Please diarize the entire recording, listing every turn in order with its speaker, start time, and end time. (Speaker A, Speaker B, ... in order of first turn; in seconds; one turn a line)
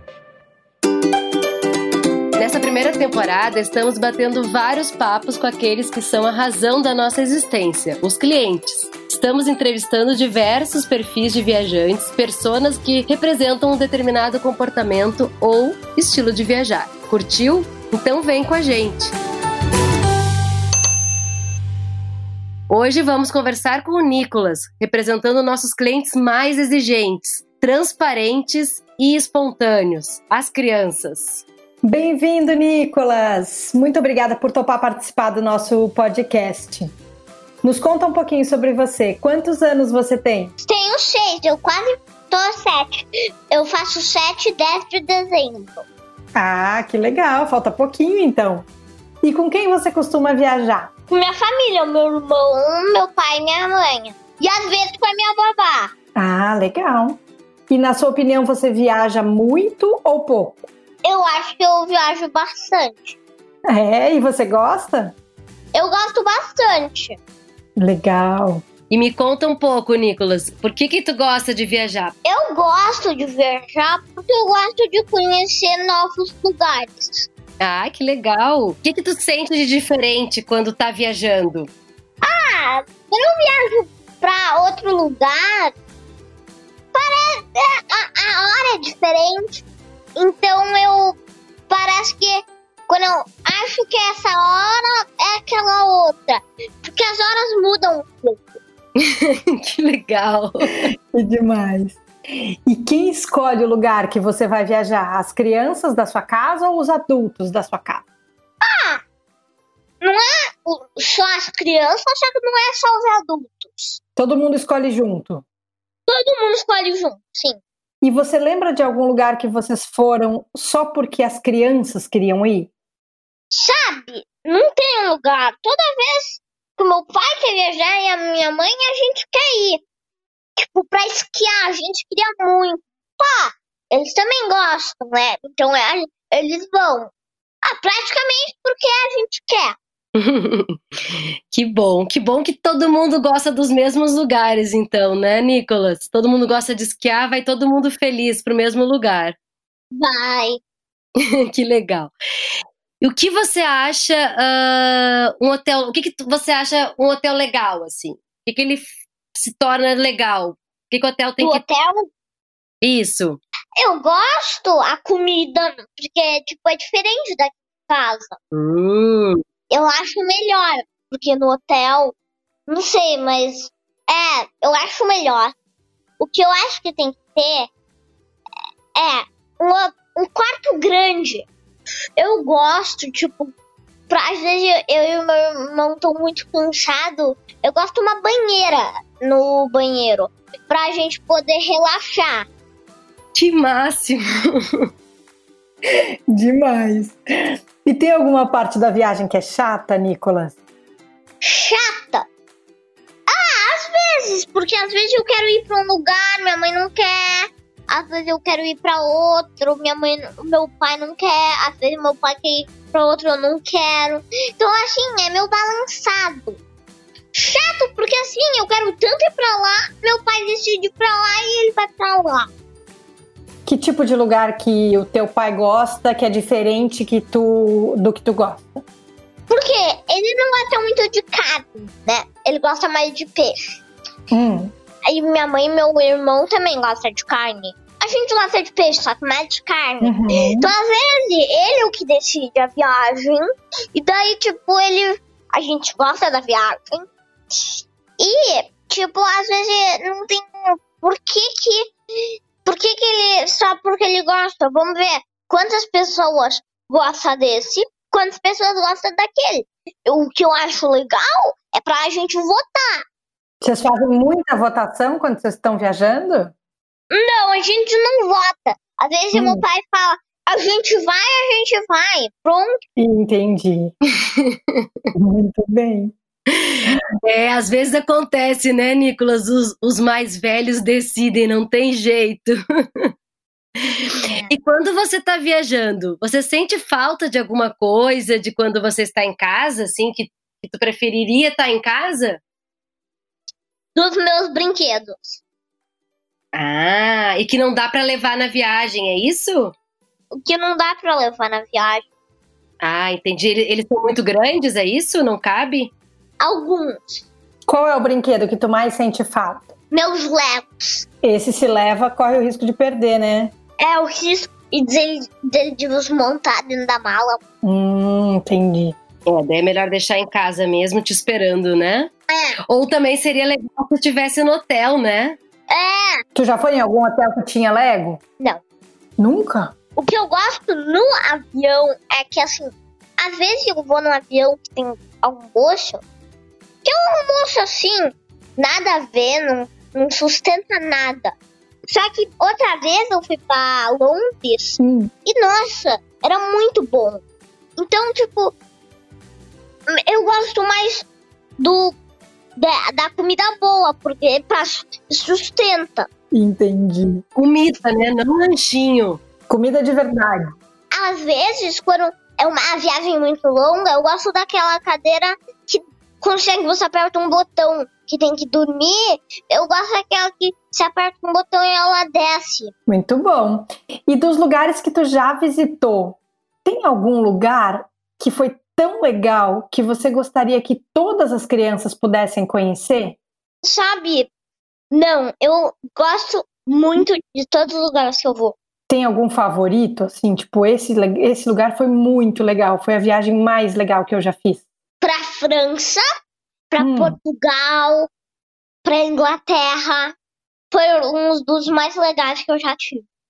Speaker A: 2.4-19.1
Speaker A: 22.7-31.4
Speaker B: 31.8-36.9
Speaker B: 37.6-40.5
Speaker C: 40.6-45.9
Speaker B: 46.3-48.7
Speaker B: 49.2-50.9
Speaker C: 51.1-55.9
Speaker B: 56.1-60.7
Speaker C: 61.0-63.2
Speaker B: 63.7-65.1
Speaker C: 65.7-67.2
Speaker B: 67.8-68.6
Speaker A: 68.9-72.1
Speaker C: 72.2-77.3
Speaker A: 77.6-81.7
Speaker C: 82.2-85.7
Speaker C: 86.9-89.6
Speaker C: 90.2-98.6
Speaker A: 99.0-100.8
Speaker B: 101.1-108.0
Speaker C: 108.6-109.0
Speaker C: 110.0-114.0
Speaker B: 114.2-115.4
Speaker C: 116.0-117.6
Speaker B: 118.0-122.7
Speaker C: 123.5-129.8
Speaker C: 130.6-137.1
Speaker C: 137.6-139.8
Speaker A: 140.2-140.8
Speaker A: 141.5-149.3
Speaker C: 149.9-150.6
Speaker A: 151.5-152.1
Speaker A: 153.0-161.6
Speaker C: 161.4-162.1
Speaker A: 162.8-163.4
Speaker C: 163.8-168.4
Speaker A: 168.5-169.4
Speaker C: 169.7-172.1
Speaker C: 172.7-175.5
Speaker C: 176.2-177.7
Speaker C: 178.9-181.5
Speaker C: 182.2-183.5
Speaker C: 184.1-192.5
Speaker A: 193.3-194.2
Speaker B: 196.3-197.2
Speaker B: 197.8-200.6
Speaker C: 201.4-202.3
Speaker C: 203.3-216.6
Speaker C: 217.3-222.5
Speaker B: 223.7-228.8
Speaker C: 229.5-233.8
Speaker B: 234.3-234.7
Speaker C: 235.1-251.9
Speaker B: 240.0-240.7
Speaker C: 252.6-263.0
Speaker B: 263.6-266.5
Speaker C: 267.1-272.8
Speaker B: 269.3-269.6
Speaker B: 273.0-273.9
Speaker A: 274.4-274.8
Speaker B: 275.1-276.1
Speaker A: 276.5-283.1
Speaker A: 283.8-292.4
Speaker C: 284.2-284.5
Speaker C: 293.9-295.4
Speaker A: 296.5-299.7
Speaker C: 300.4-302.1
Speaker A: 302.8-305.9
Speaker C: 306.4-307.2
Speaker B: 307.7-309.7
Speaker C: 309.9-311.1
Speaker B: 311.2-313.5
Speaker C: 313.8-317.4
Speaker B: 317.6-318.9
Speaker A: 319.2-322.1
Speaker C: 322.3-322.6
Speaker A: 322.7-325.4
Speaker C: 325.7-326.2
Speaker B: 326.3-328.2
Speaker B: 329.2-329.7
Speaker C: 329.9-336.0
Speaker C: 336.8-341.3
Speaker C: 341.9-347.2
Speaker B: 344.8-345.1
Speaker C: 347.8-348.5
Speaker C: 349.9-351.1
Speaker C: 351.6-351.9
Speaker C: 352.6-356.1
Speaker B: 356.3-357.2
Speaker A: 357.4-359.2
Speaker B: 359.5-360.5
Speaker C: 360.9-372.7
Speaker B: 372.9-383.2
Speaker C: 383.6-384.3
Speaker C: 384.9-388.6
Speaker B: 388.9-394.6
Speaker C: 395.0-396.0
Speaker C: 396.7-398.1
Speaker B: 396.8-397.1
Speaker C: 398.8-400.1
Speaker C: 400.7-403.1